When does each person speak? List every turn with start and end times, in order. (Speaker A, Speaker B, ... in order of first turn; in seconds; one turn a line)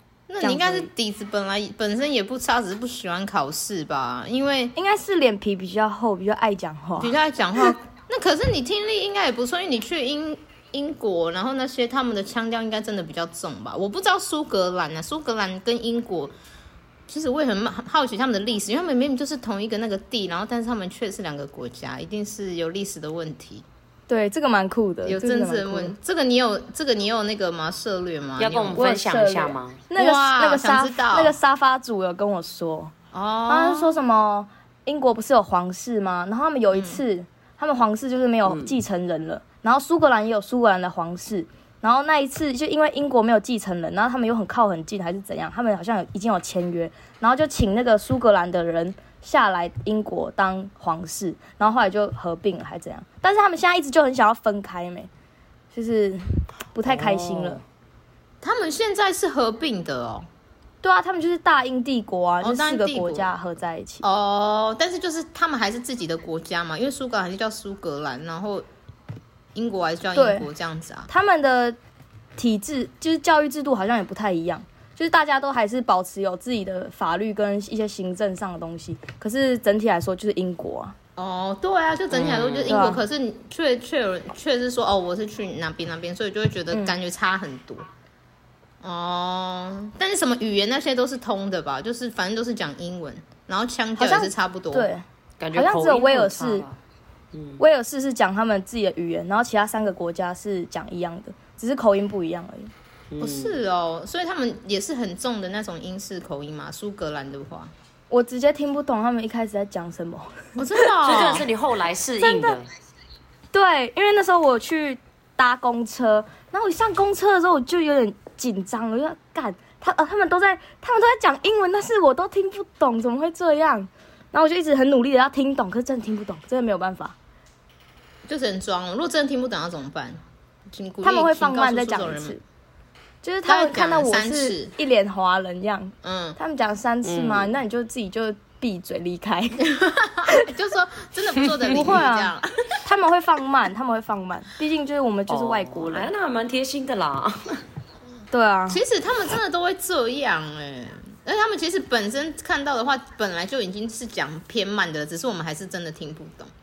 Speaker A: 0.3-4.7
Speaker B: 0.4-0.9
Speaker B: 4.8-7.7
Speaker A: 7.0-16.3
Speaker A: 17.1-23.6
Speaker B: 24.1-25.9
Speaker A: 25.0-28.8
Speaker C: 28.4-29.8
Speaker B: 28.7-32.9
Speaker A: 29.9-31.3
Speaker A: 33.1-33.9
Speaker B: 33.5-55.1
Speaker A: 36.7-37.0
Speaker C: 38.5-38.7
Speaker B: 55.7-57.6
Speaker C: 56.9-57.6
Speaker A: 58.4-60.3
Speaker B: 60.8-64.0
Speaker A: 62.4-63.3
Speaker A: 64.0-68.7
Speaker A: 69.5-71.1
Speaker B: 70.1-70.5
Speaker B: 71.1-71.8
Speaker B: 72.4-80.9
Speaker A: 81.2-87.9
Speaker C: 82.1-82.8
Speaker B: 82.7-83.0
Speaker A: 88.8-94.9
Speaker B: 94.0-95.0
Speaker C: 95.4-96.8
Speaker B: 95.5-96.6
Speaker C: 97.3-97.6
Speaker B: 97.6-102.7
Speaker C: 103.1-103.6
Speaker A: 103.2-107.7
Speaker B: 108.1-110.8
Speaker A: 110.6-111.5
Speaker C: 111.0-112.7
Speaker B: 112.2-112.6
Speaker B: 113.5-127.2
Speaker A: 128.3-130.2
Speaker A: 130.7-132.3
Speaker B: 131.0-132.4
Speaker B: 133.2-139.7
Speaker A: 133.4-134.7
Speaker A: 136.0-136.4
Speaker C: 137.0-137.6
Speaker A: 139.7-142.7
Speaker B: 140.2-140.5
Speaker C: 141.4-141.9
Speaker B: 141.7-146.1
Speaker C: 145.3-147.6
Speaker B: 148.3-148.8
Speaker A: 148.7-156.5